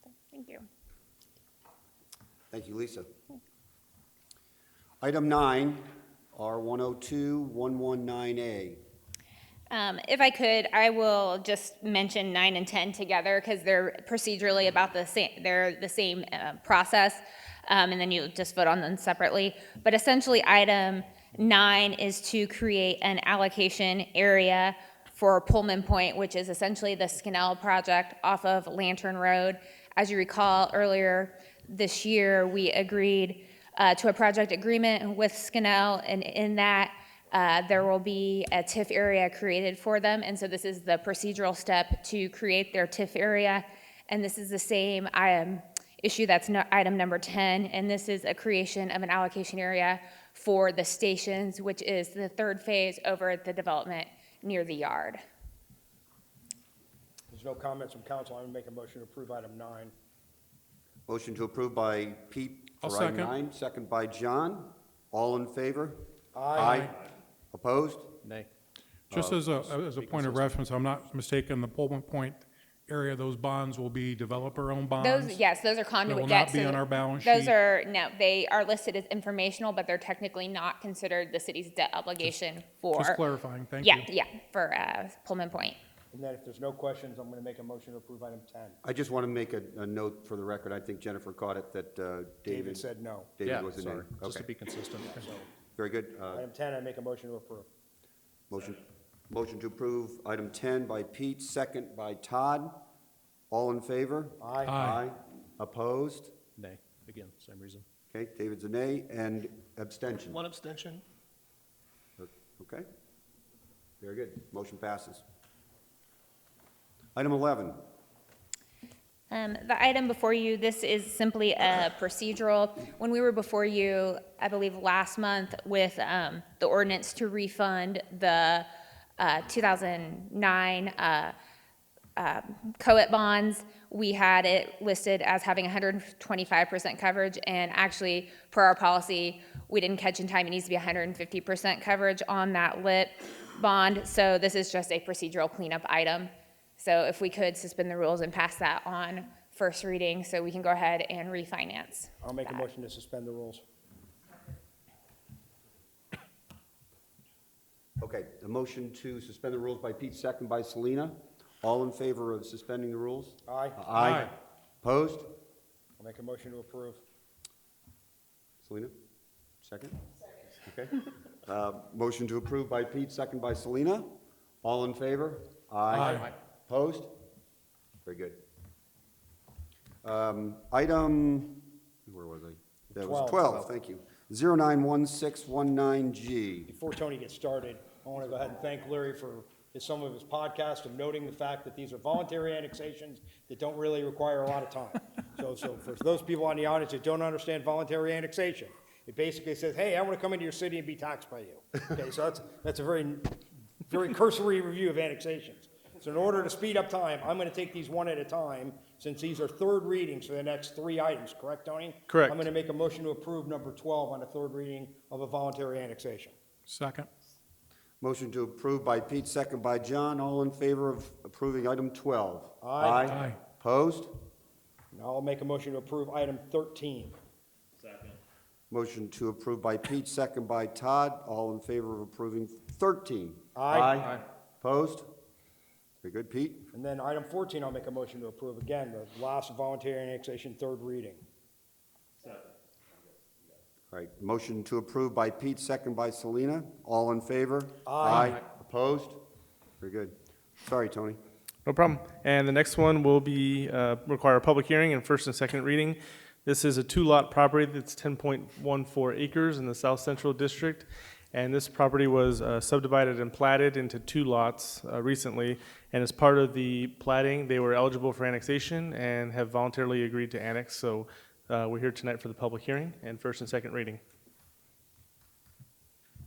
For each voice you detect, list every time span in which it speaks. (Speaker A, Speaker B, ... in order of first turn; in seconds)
Speaker A: 0.3-0.7, 9.7-55.2, 75.0-83.2, 83.8-85.8, 119.3-128.7, 129.2-131.3, 132.2-152.7
Speaker B: 2.5-3.1, 5.0-8.8, 61.1-66.9, 67.5-68.2, 69.1-69.5, 88.8-92.8, 93.4-94.5, 95.8-96.5, 98.5-102.8, 103.5-106.3, 108.1-110.4, 112.2-112.8, 114.0-115.2, 117.1-117.8, 158.0-165.3, 168.6-168.9, 169.6-170.1, 170.6-177.1, 178.0-178.4, 180.0-186.7, 218.0-224.2, 228.7-235.1, 236.0-236.7, 243.9-249.2, 249.8-251.2
Speaker C: 57.3-59.9, 66.3-66.9, 86.1-88.8, 92.5-93.4, 95.1-95.5, 96.3-97.7, 104.4-104.8, 152.2-153.6, 163.5-163.8, 166.0-167.0, 182.9-183.7, 186.7-216.3, 222.6-223.2, 224.9-227.1, 233.6-234.0, 236.7-241.2, 247.8-248.4
Speaker D: 62.8-63.3, 69.1-75.4, 76.0-77.5, 82.9-84.0, 104.7-105.0, 163.9-164.3, 175.9-176.2, 216.7-217.1, 223.0-223.4
Speaker E: 68.2-68.5, 69.6-70.6, 93.4-95.3, 106.6-107.8, 110.1-111.0
Speaker F: 212.1-212.4, 251.7-274.0